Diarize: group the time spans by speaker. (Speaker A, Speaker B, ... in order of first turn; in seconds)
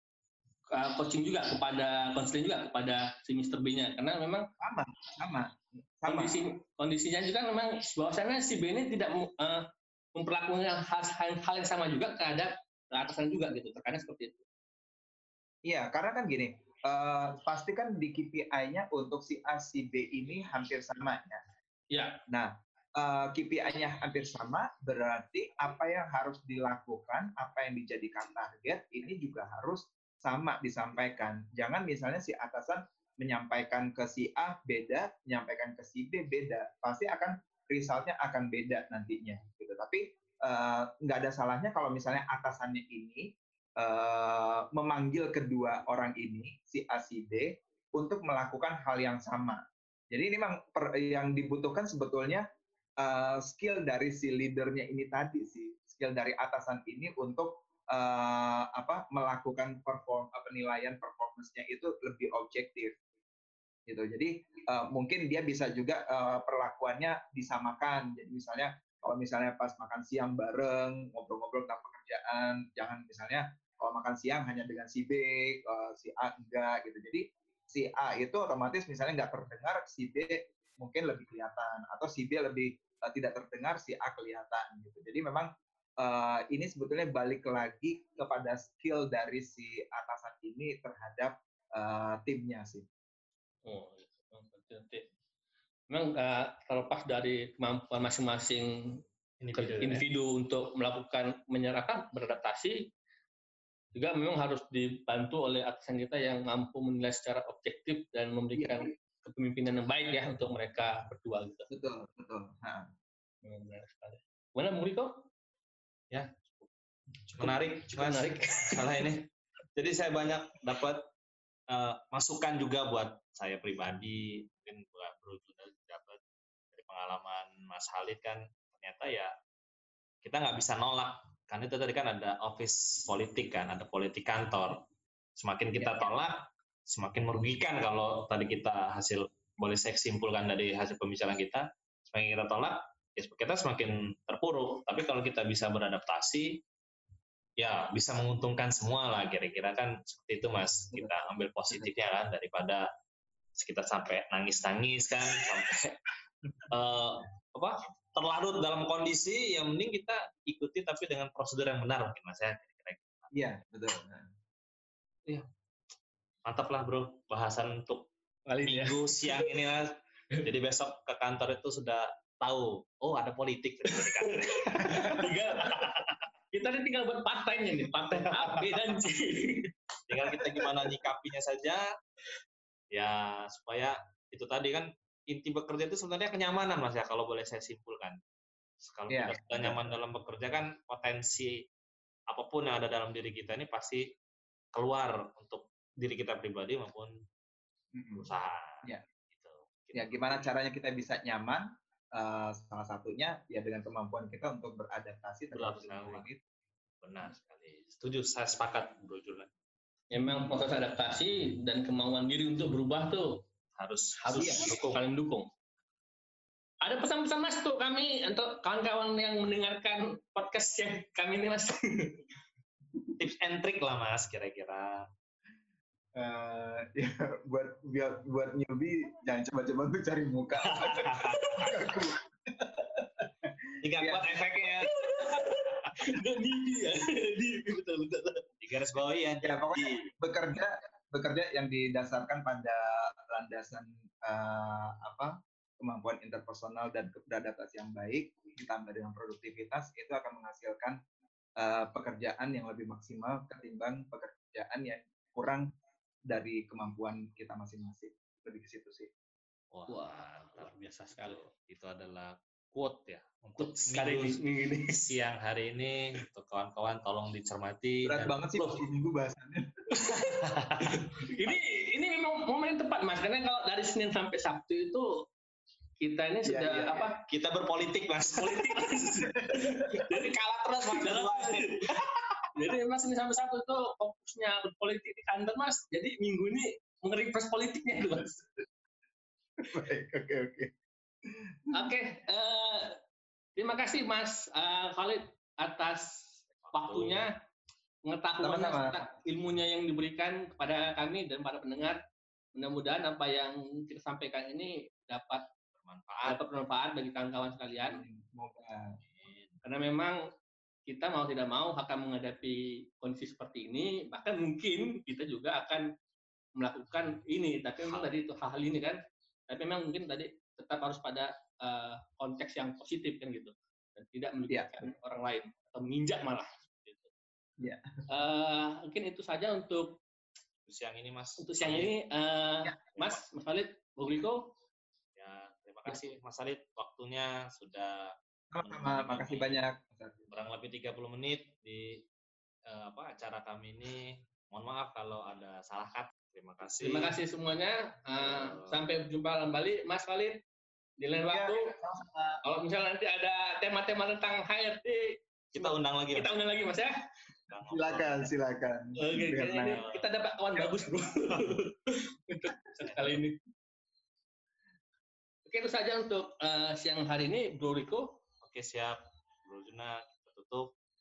Speaker A: 0.7-4.5, 6.1-14.4, 21.9-22.2, 93.7-95.1, 95.9-99.0, 99.5-102.9, 104.0-111.7, 113.5-115.3, 117.3-119.0, 135.8-136.1, 168.5-169.5, 173.9-179.7, 180.3-180.6, 210.1-213.4, 214.2-215.5, 216.8-222.2, 234.8-238.4, 259.9-261.5, 263.6-265.0, 269.9-275.2, 276.0-277.2, 278.3-281.8, 282.6-288.4, 291.7-293.0, 293.6-297.4, 298.1-302.0, 302.6-305.4, 306.2-308.0, 309.6-310.2, 310.9-315.9, 316.6-327.1, 328.1-330.0, 331.4-334.5, 346.8-350.4, 351.0-351.7, 352.4-357.0, 359.0-363.4, 365.5-368.2
Speaker B: 4.6-6.4, 15.7-21.4, 22.3-52.5, 53.0-63.0, 63.9-92.9, 108.6-108.9, 111.7-112.9, 163.3-164.3, 189.1-189.9, 197.9-198.3, 199.9-206.4, 214.4-214.7, 226.2-234.3, 239.4-251.0, 251.6-255.7, 256.3-259.1, 268.1-269.8, 276.5-277.1, 289.6-290.7, 291.3-291.8, 298.4-299.0, 307.8-309.0, 324.5-324.9, 327.6-327.9, 338.5-340.2, 351.3-352.4, 357.7-359.8
Speaker C: 99.4-100.1, 117.4-121.1, 121.7-126.2, 126.7-129.3, 130.2-146.6, 147.6-152.9, 153.6-156.0, 156.7-163.3, 166.4-168.1, 168.6-175.3, 178.4-178.9, 180.1-181.9, 182.9-188.2, 188.8-191.7, 192.3-194.2, 194.7-197.2, 198.2-200.5, 205.5-206.3, 207.0-209.5, 213.8-215.0, 223.2-225.1, 230.6-232.0, 233.8-234.9, 238.6-240.1, 259.7-268.7, 270.2-271.6, 277.3-278.9, 279.9-282.4, 296.6-297.3, 305.8-306.4, 309.1-309.6, 317.8-318.1, 330.7-331.9, 333.0-333.2, 335.2-339.6, 340.3-342.0, 342.7-347.1, 348.2-348.8, 355.5-356.3, 357.5-358.3, 359.6-360.1, 362.8-363.2, 368.4-370.7